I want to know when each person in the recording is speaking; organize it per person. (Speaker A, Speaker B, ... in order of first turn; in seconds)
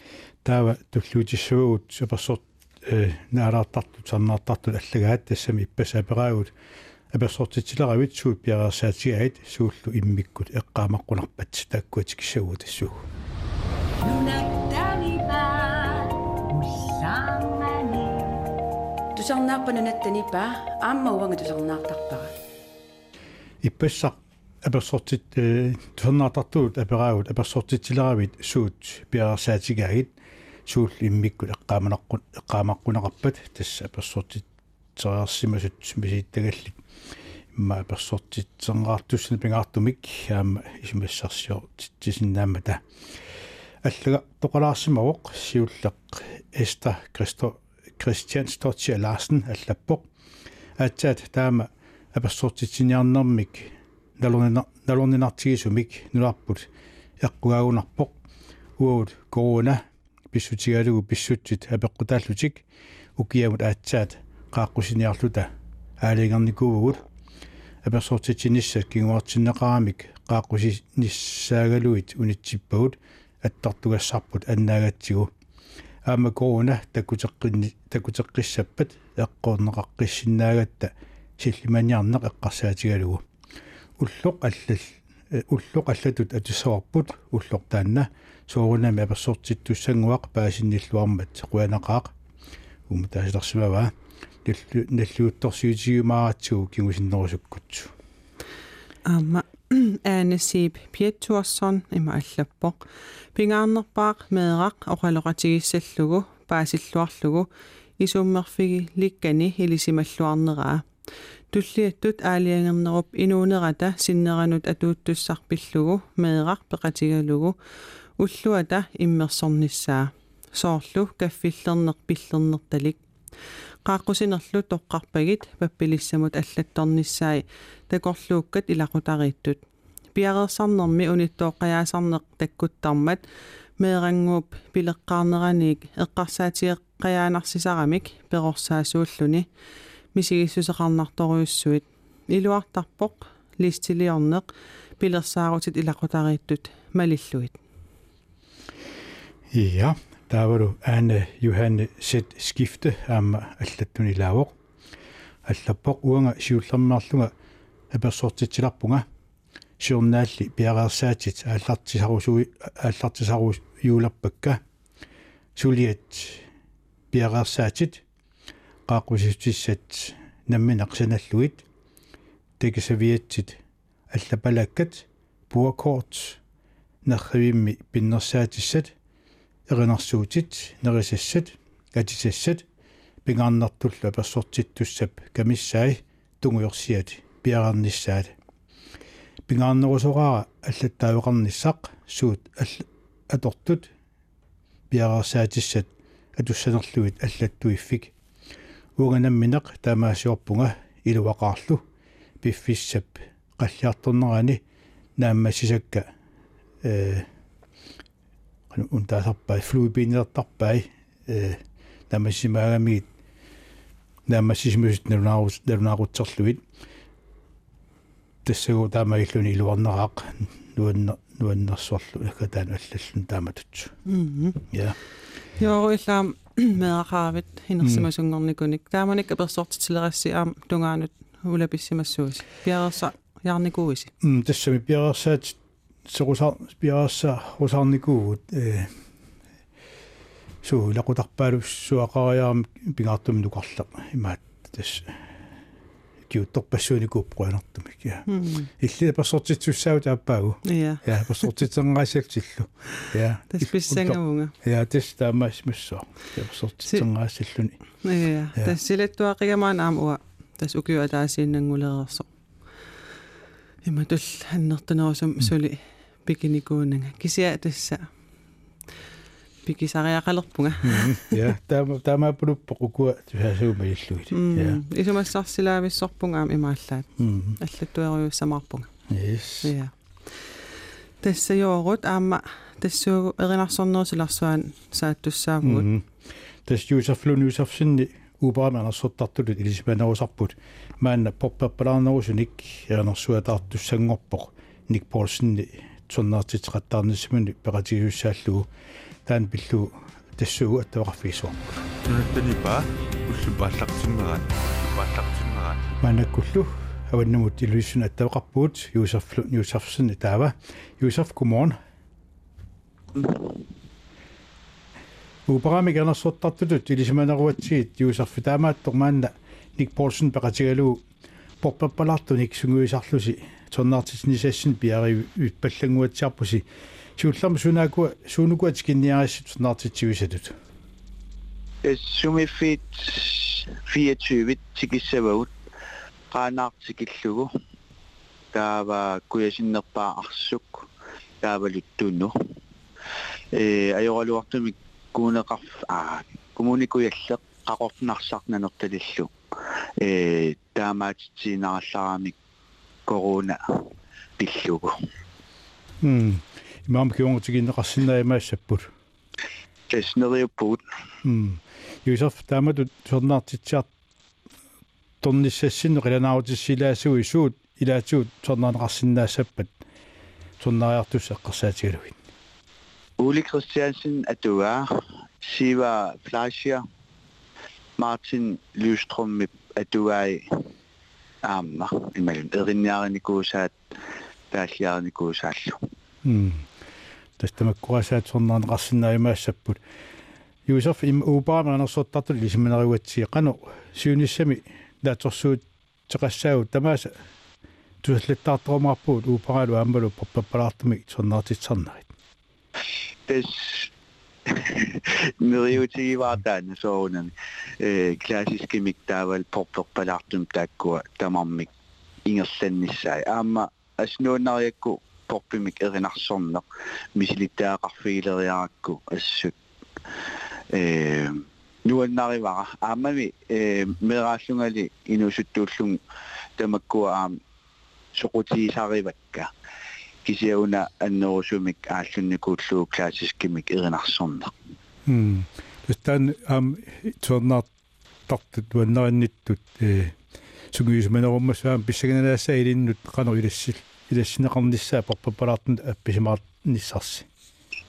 Speaker A: 0.4-6.5, 7.1-13.0, 23.6-30.1, 30.7-36.8, 37.5-42.8, 43.8-50.1, 50.8-56.7, 57.2-58.1, 58.8-62.6, 63.2-65.5, 66.0-67.0, 67.8-75.3, 76.1-83.2, 84.0-92.1, 92.9-93.9, 94.5-97.9, 149.5-154.5, 155.5-157.3, 157.9-159.1, 159.8-164.6, 165.6-166.5, 167.1-168.0, 168.9-171.6, 172.6-173.6, 174.1-176.4, 177.1-178.9, 179.7-182.7, 183.2-188.3, 189.5-193.9, 194.9-198.1, 199.0-201.8, 202.4-204.6, 205.2-206.1, 206.8-207.3, 208.7-213.1, 214.3-216.6, 218.4-223.9, 224.7-225.0, 227.8-228.1, 234.2-239.0, 240.6-245.2, 246.3-248.2, 248.8-257.8, 270.8-274.8, 277.2-277.6, 279.1-279.7, 285.6-286.1, 286.6-298.7, 299.3-301.8, 306.0-311.8, 315.5-321.0, 321.6-326.7, 327.2-330.6, 356.0-358.9, 361.2-363.9, 365.2-369.7, 370.6-372.2, 386.2-386.7, 387.4-389.8, 390.7-397.1, 398.0-402.1, 435.1-437.7, 438.3-440.2, 440.7-447.3
Speaker B: 14.0-18.4, 19.1-22.3
Speaker C: 99.1-102.8, 103.3-107.5, 108.0-110.8, 111.5-117.5, 118.2-123.0, 123.9-129.6, 130.2-133.2, 133.8-139.5, 140.2-144.4, 145.0-147.6, 224.1-224.6, 225.6-234.1, 248.3-248.7, 250.7-251.5, 253.5-254.5, 258.0-262.3, 263.9-268.1, 269.7-271.4, 274.3-277.1, 277.6-278.9, 279.6-279.9, 281.2-285.9
Speaker D: 302.1-305.9
Speaker E: 331.9-335.5, 336.3-337.5, 338.5-340.9, 341.4-342.3, 343.6-349.3, 350.0-352.4, 353.1-353.6, 354.4-354.9, 359.9-360.8, 373.2-374.9, 375.4-376.8, 378.0-380.4, 381.5-383.8, 384.5-385.8, 403.3-403.9, 404.5-411.7, 412.3-416.6, 417.2-419.5, 420.7-426.0, 426.6-427.4, 428.1-429.5, 430.2-434.5